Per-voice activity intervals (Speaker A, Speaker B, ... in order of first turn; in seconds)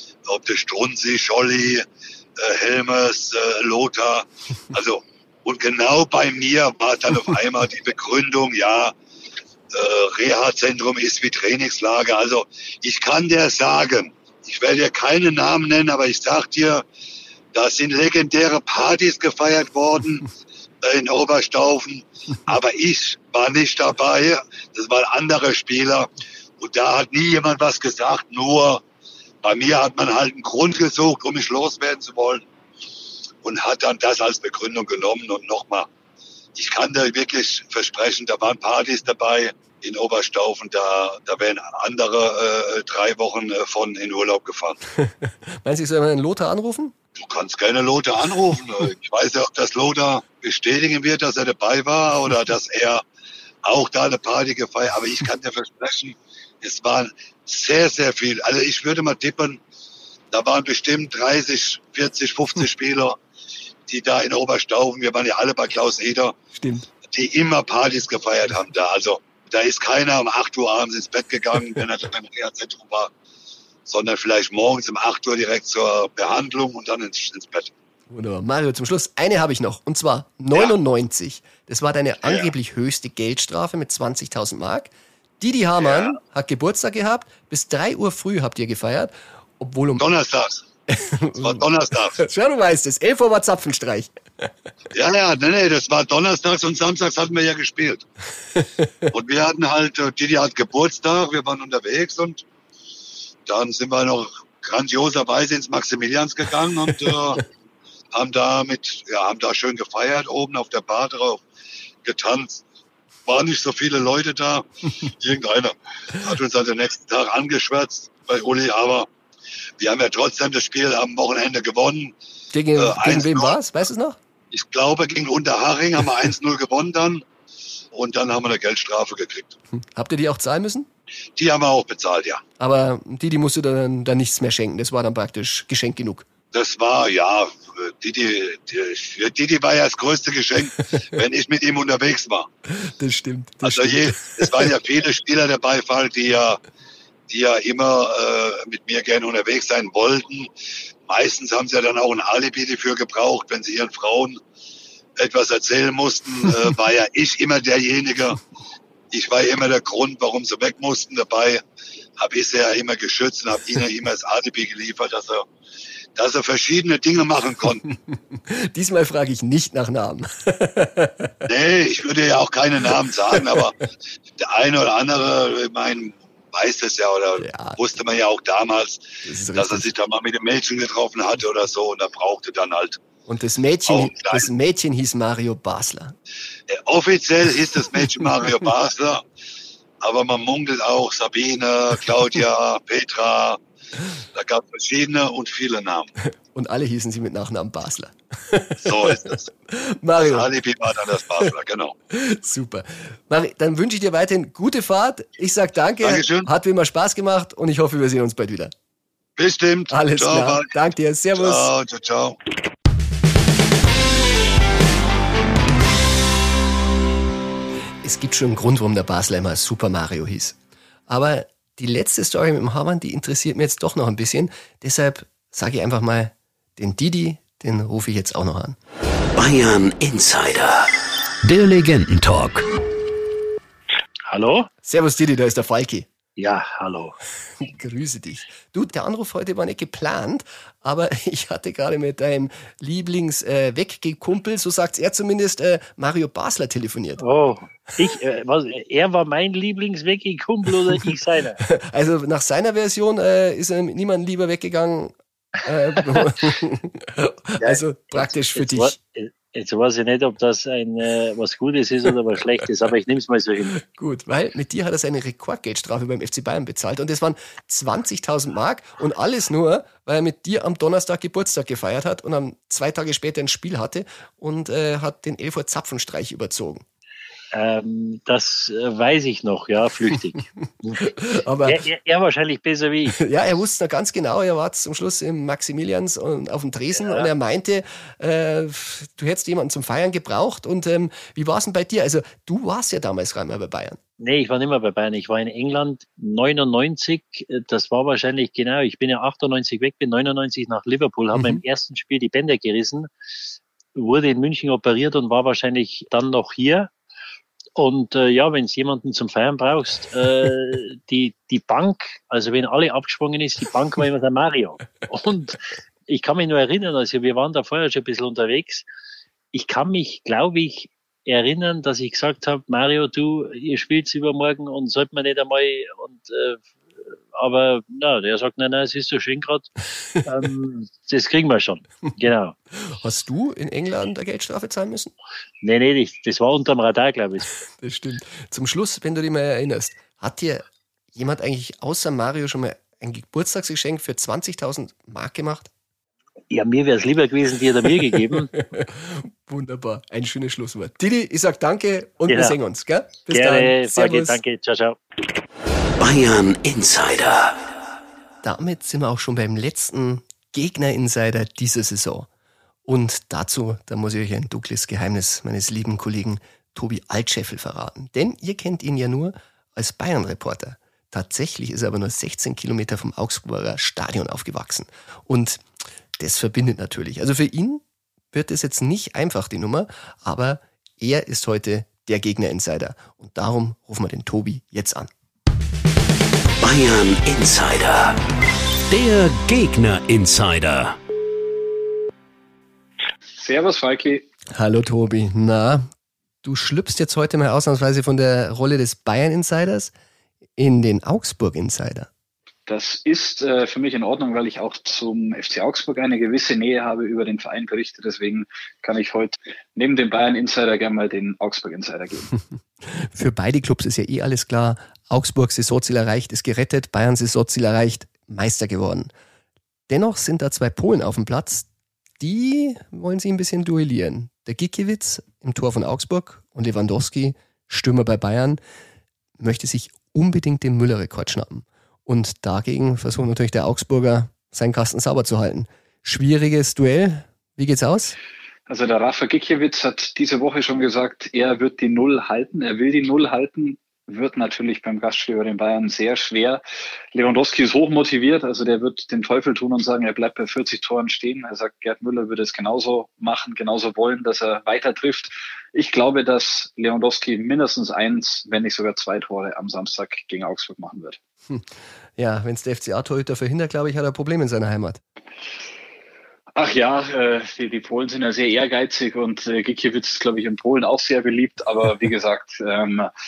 Speaker A: 0.3-1.9, 2.4-8.9, 9.7-16.8, 17.5-20.3, 20.8-26.1, 26.6-28.8, 29.4-32.5, 33.4-35.9, 36.6-44.8, 47.2-53.0, 53.6-59.6, 60.3-63.2, 63.9-66.3, 67.1-73.1, 73.9-77.7, 82.2-82.5, 85.8-86.2, 90.0-90.7, 91.4-92.2, 94.9-98.0, 99.1-102.4, 103.5-107.4, 108.1-111.4, 112.0-112.6, 113.3-119.1, 119.8-122.2, 122.8-123.6, 124.5-127.2, 127.9-129.6, 131.4-132.4, 136.5-142.5, 143.6-146.6, 147.3-150.5, 151.1-154.4, 155.2-158.4, 159.1-161.6, 162.2-165.5, 166.2-167.9, 171.4-173.8, 174.4-183.0, 183.9-184.5, 186.7-189.2, 190.0-193.6, 194.3-196.1, 198.8-199.5, 200.2-202.0, 206.0-206.5, 209.4-210.7, 211.3-212.4
Speaker B: 45.0-47.0, 66.5-66.9, 78.1-90.0, 90.9-94.5, 98.6-98.9, 122.5-124.2, 129.7-130.9, 132.6-136.3, 142.7-144.8, 167.9-171.4, 177.4-177.8, 179.2-179.9, 183.3-186.2, 196.5-200.5, 202.1-208.7, 209.9-211.7, 218.0-220.6, 221.1-228.8, 234.8-236.1, 237.6-247.2, 251.6-259.0, 263.8-276.8, 281.0-281.8, 283.2-294.0, 301.3-301.6, 332.9-335.1, 337.8-345.7, 348.5-354.4, 358.4-362.3, 362.9-375.6, 376.2-385.1, 394.6-395.9, 396.4-399.9, 400.6-402.1, 412.8-419.1, 419.9-421.7, 422.2-428.6, 429.4-438.2, 461.5-465.0
Speaker C: 229.3-230.9, 231.4-232.7, 356.0-357.7, 386.6-388.2, 388.9-391.0
Speaker D: 234.3-234.7, 236.4-237.2, 247.2-251.6, 257.6-263.8, 277.5-283.2, 287.0-287.3, 294.2-303.1, 304.0-306.9, 307.8-318.9, 319.5-329.7, 330.2-332.6, 335.6-337.6, 346.5-348.5, 352.3-352.6, 353.3-355.0
Speaker E: 393.4-394.3, 402.7-412.3, 438.7-446.6, 447.1-461.2, 466.6-473.1